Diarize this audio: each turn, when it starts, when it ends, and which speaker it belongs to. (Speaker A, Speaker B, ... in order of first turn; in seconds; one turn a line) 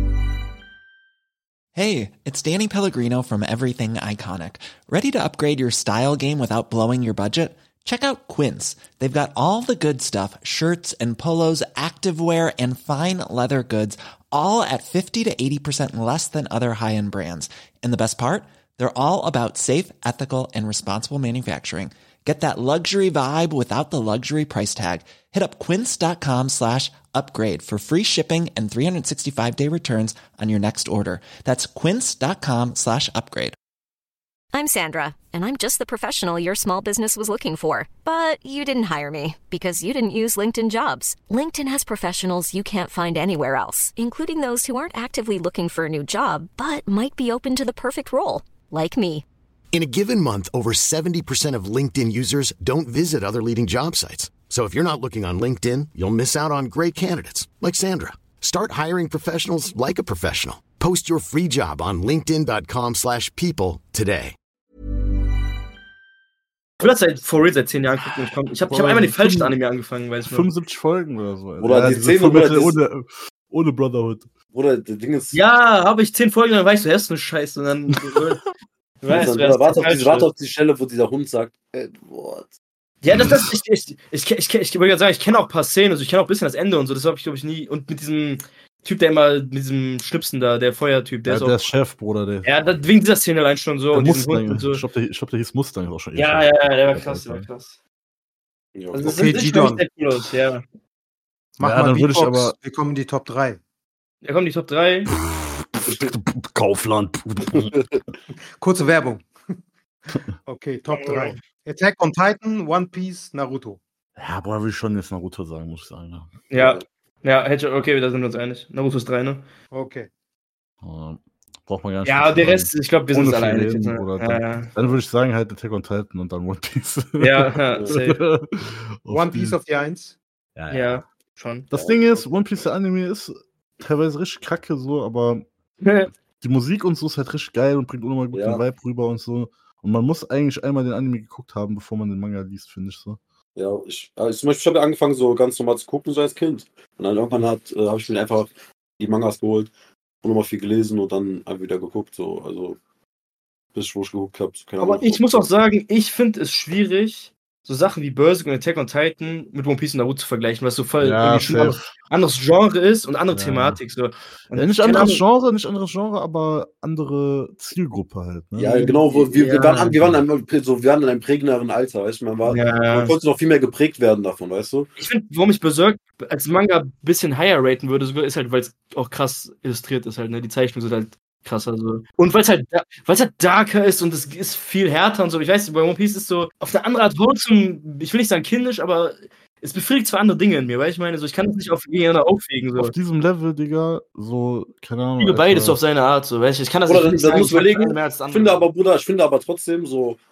Speaker A: 1.8-33.6
Speaker B: 34.5-49.2
Speaker C: 49.7-64.4
Speaker D: 66.8-70.5
Speaker E: 68.7-69.6
Speaker E: 70.2-74.3
Speaker F: 71.6-72.8
Speaker F: 74.5-75.4
Speaker D: 75.3-78.5
Speaker D: 79.0-80.3
Speaker F: 79.1-82.5
Speaker D: 83.0-91.6
Speaker E: 91.3-92.5
Speaker D: 92.4-94.8
Speaker E: 93.9-97.5
Speaker D: 96.2-97.8
Speaker F: 98.8-99.3
Speaker D: 98.9-100.6
Speaker G: 99.0-99.8
Speaker G: 101.6-103.6
Speaker E: 101.6-102.6
Speaker D: 104.2-105.2
Speaker E: 105.4-107.7
Speaker F: 107.5-107.8
Speaker G: 108.6-109.2
Speaker G: 110.5-113.8
Speaker D: 110.9-111.4
Speaker E: 114.2-116.3
Speaker D: 116.5-119.5
Speaker F: 116.6-116.8
Speaker G: 119.7-120.1
Speaker E: 120.8-129.6
Speaker D: 122.0-124.7
Speaker D: 127.2-128.2
Speaker G: 129.1-130.2
Speaker E: 130.6-131.0
Speaker D: 130.7-131.7
Speaker E: 131.7-135.4
Speaker F: 131.7-132.2
Speaker D: 135.8-136.1
Speaker E: 136.4-143.2
Speaker F: 138.3-138.6
Speaker F: 143.6-149.7
Speaker F: 150.2-152.8
Speaker F: 153.8-155.4
Speaker D: 154.8-165.2
Speaker E: 161.0-161.9
Speaker E: 163.3-163.8
Speaker E: 164.5-168.9
Speaker F: 168.6-174.9
Speaker D: 168.7-170.0
Speaker D: 172.4-173.2
Speaker D: 175.0-192.9
Speaker E: 192.8-195.8
Speaker D: 195.2-198.7
Speaker F: 196.9-200.2